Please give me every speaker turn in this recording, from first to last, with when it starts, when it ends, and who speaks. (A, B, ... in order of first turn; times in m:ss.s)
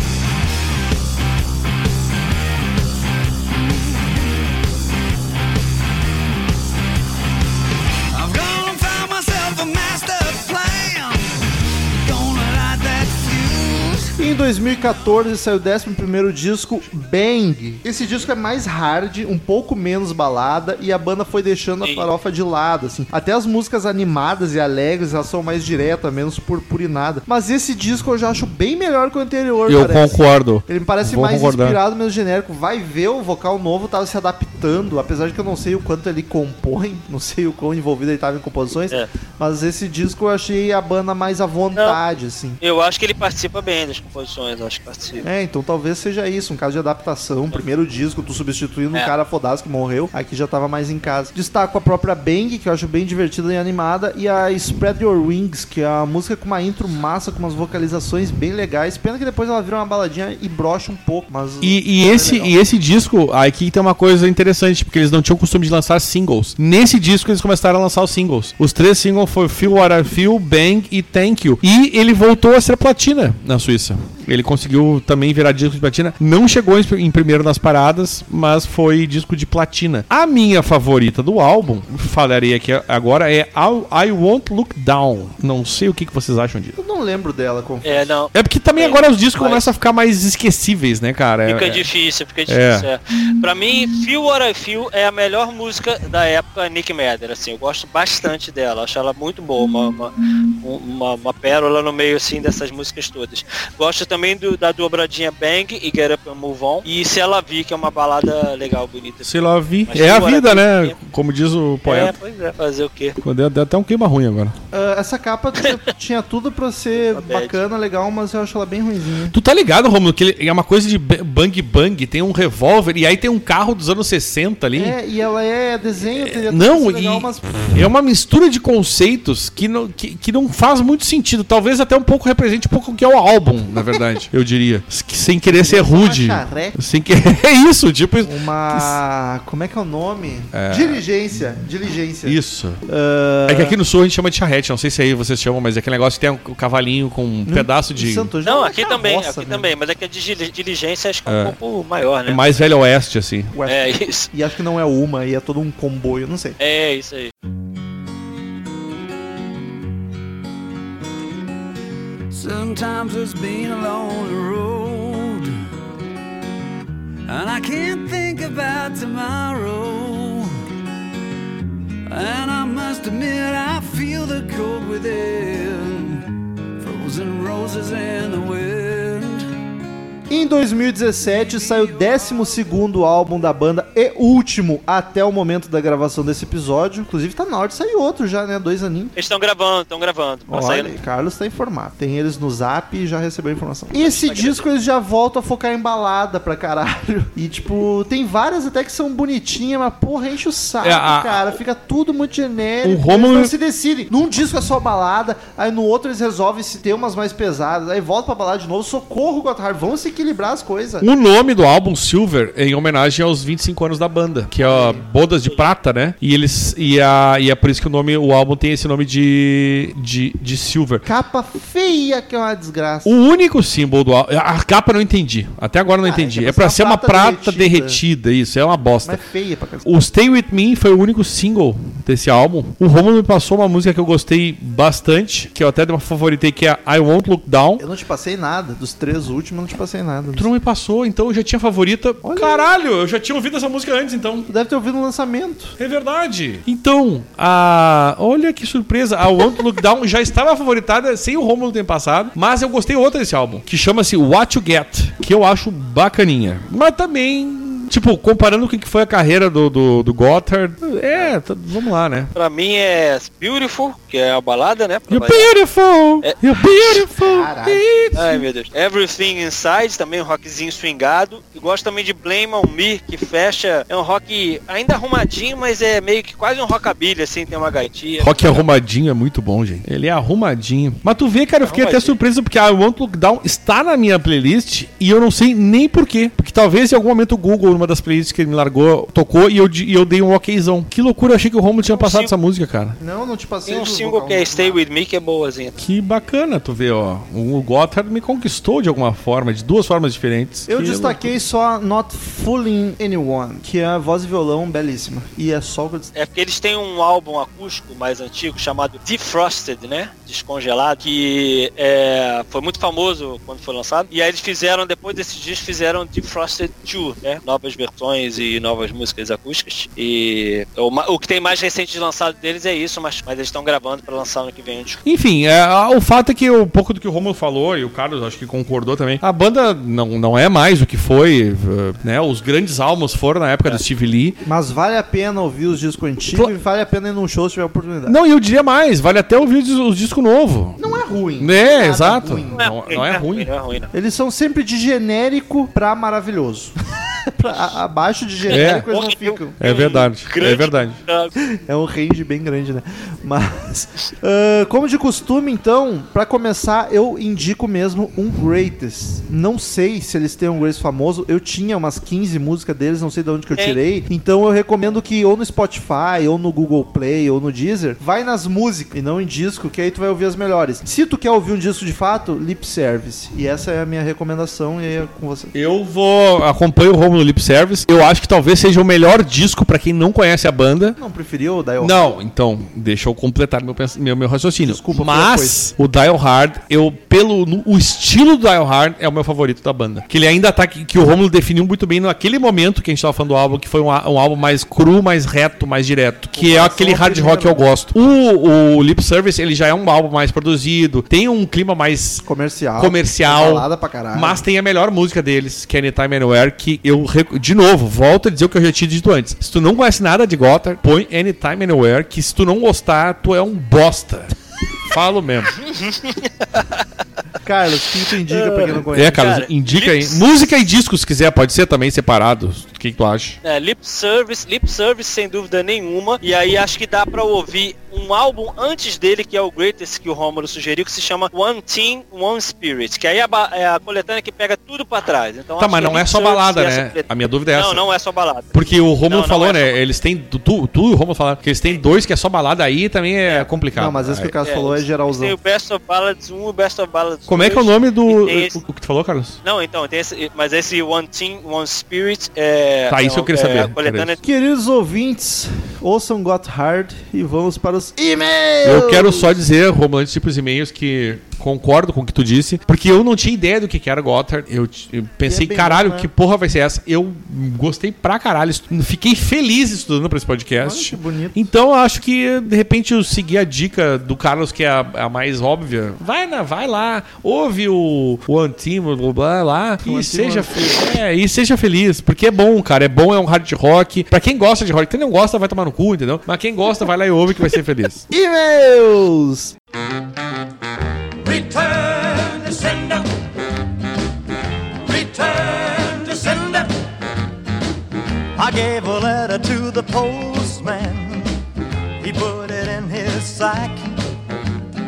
0:08.1-0:14.2 A
0:14.2-0:42.6 B
0:21.8-0:22.1 C
0:29.7-0:31.8 D
0:42.6-0:45.2 C
0:45.2-1:02.5 B
1:01.6-1:26.8 D
1:26.8-1:28.1 B
1:27.8-1:29.6 C
1:28.3-1:31.8 D
1:31.4-1:49.3 C
1:32.5-1:32.9 D
1:49.2-1:52.1 D
1:49.9-1:50.9 C
1:51.8-1:53.2 C
1:53.2-1:54.5 D
1:54.7-1:59.4 B
1:57.0-1:57.6 C
1:59.3-2:05.0 D
2:04.7-2:07.9 B
2:06.2-2:19.0 D
2:15.5-2:16.8 B
2:18.2-2:23.8 B
2:20.5-2:21.0 D
2:22.2-2:22.8 D
2:23.5-2:28.3 D
2:27.5-2:29.7 B
2:28.4-2:32.4 C
2:31.2-2:31.5 D
2:32.2-2:33.5 D
2:33.5-2:36.6 B
2:33.6-2:34.3 C
2:36.6-2:37.3 C
2:42.3-2:45.5 A
2:47.3-2:50.5 A
2:52.1-2:56.2 A
2:56.8-2:59.4 A
3:00.3-3:09.1 B
3:09.2-3:10.9 C
3:10.5-3:31.1 B
3:13.9-3:14.6 C
3:20.8-3:21.6 D
3:22.8-3:23.5 D
3:31.0-3:41.0 D
3:34.6-3:35.0 B
3:41.0-3:43.1 B
3:43.0-3:49.2 D
3:46.0-3:48.0 B
3:49.0-3:49.9 B
3:49.8-3:57.8 D
3:57.8-4:00.5 B
4:00.4-4:04.5 D
4:02.2-4:02.7 B
4:04.5-4:05.8 B
4:05.8-4:22.3 D
4:22.3-4:25.5 C
4:25.1-4:28.4 D
4:27.0-4:27.8 B
4:28.1-4:38.6 C
4:38.2-4:53.0 D
4:41.6-4:42.2 C
4:52.0-4:52.3 C
4:53.0-4:54.8 B
4:53.7-4:55.8 C
4:55.8-5:01.3 D
5:00.7-5:06.1 B
5:06.1-5:25.0 C
5:25.0-5:34.4 D
5:34.4-5:38.2 B
5:38.0-5:40.8 D
5:40.8-5:42.6 B
5:41.4-5:43.5 D
5:42.5-5:43.9 C
5:43.9-5:49.6 B
5:47.4-5:47.7 C
5:48.5-5:51.3 C
5:48.5-5:48.9 D
5:49.6-5:51.0 D
5:51.4-6:15.5 B
6:15.5-6:21.0 D
6:21.0-6:22.1 B
6:21.8-6:42.2 D
6:24.6-6:25.6 B
6:36.3-6:37.7 B
6:42.2-6:44.4 B
6:42.8-6:54.3 D
6:54.9-6:55.6 D
6:55.7-6:56.8 C
6:57.4-6:59.4 B
6:58.3-7:00.5 C
6:58.9-7:03.4 D
7:03.4-7:19.8 C
7:15.6-7:17.8 D
7:18.5-7:24.3 D
7:23.7-7:25.3 B
7:24.4-7:28.6 C
7:27.3-7:29.4 D
7:29.4-7:34.2 C
7:32.9-7:34.1 D
7:34.2-7:39.3 B
7:38.6-8:08.0 D
7:45.2-7:46.1 B
7:50.6-7:51.4 B
7:59.8-8:00.9 B
8:08.1-8:09.5 B
8:11.2-8:13.3 A
8:14.8-8:16.8 A
8:18.4-8:21.4 A
8:22.0-8:24.1 A